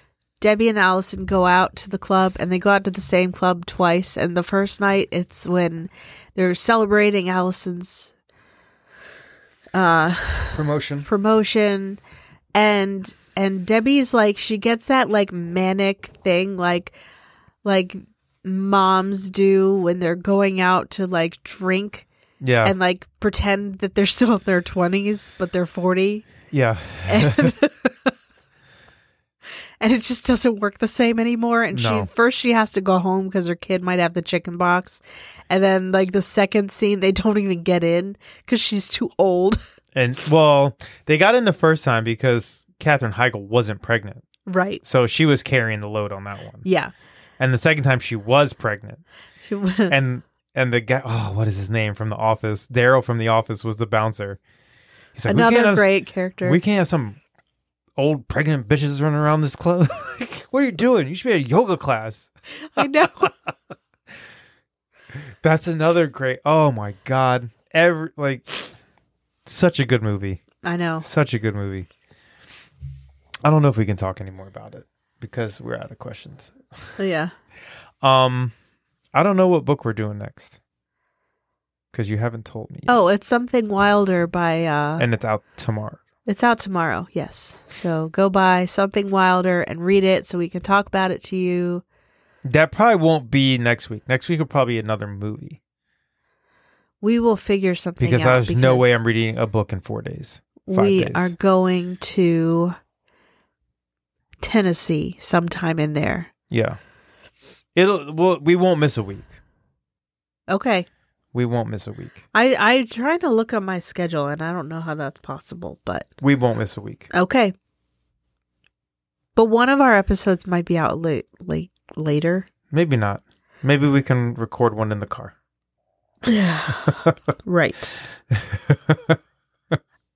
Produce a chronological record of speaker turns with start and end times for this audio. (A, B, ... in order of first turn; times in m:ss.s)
0:00.4-0:08.1 A
0:09.8-0:12.0 A
0:10.5-0:11.1 B
0:12.6-0:16.9 A
0:17.6-0:22.1 A
0:22.4-0:22.8 B
0:22.6-0:26.3 A
0:26.5-0:27.5 B
0:27.1-0:28.1 A
0:29.8-0:39.6 A
0:31.7-0:32.1 B
0:39.9-0:44.2 B
0:44.5-0:44.8 A
0:44.8-0:46.6 B
0:46.6-0:46.9 A
0:47.4-0:49.0 B
0:49.4-0:50.0 A
0:49.9-0:54.4 B
0:55.2-0:55.9 B
0:55.3-0:56.6 A
0:56.4-0:57.2 B
0:58.0-1:03.5 B
1:02.6-1:03.3 A
1:05.1-1:08.7 B
1:09.4-1:10.4 B
1:10.6-1:11.1 A
1:11.0-1:11.9 B
1:13.4-1:16.9 B
1:17.0-1:17.3 A
1:18.0-1:18.5 B
1:19.1-1:20.5 B
1:21.9-1:23.0 B
1:22.9-1:25.1 A
1:25.0-1:26.0 B
1:26.3-1:31.8 A
1:32.4-1:35.6 B
1:37.0-1:39.0 A
1:38.0-1:41.3 B
1:40.6-1:42.8 A
1:44.4-1:46.3 A
1:46.5-1:46.8 B
1:47.8-1:49.4 B
1:50.5-1:50.9 A
1:51.3-1:52.2 B
1:52.3-1:56.1 A
1:56.2-1:57.1 B
1:57.1-1:57.5 A
1:59.4-2:02.5 A
2:02.7-2:05.3 B
2:06.2-2:08.0 A
2:08.3-2:09.2 B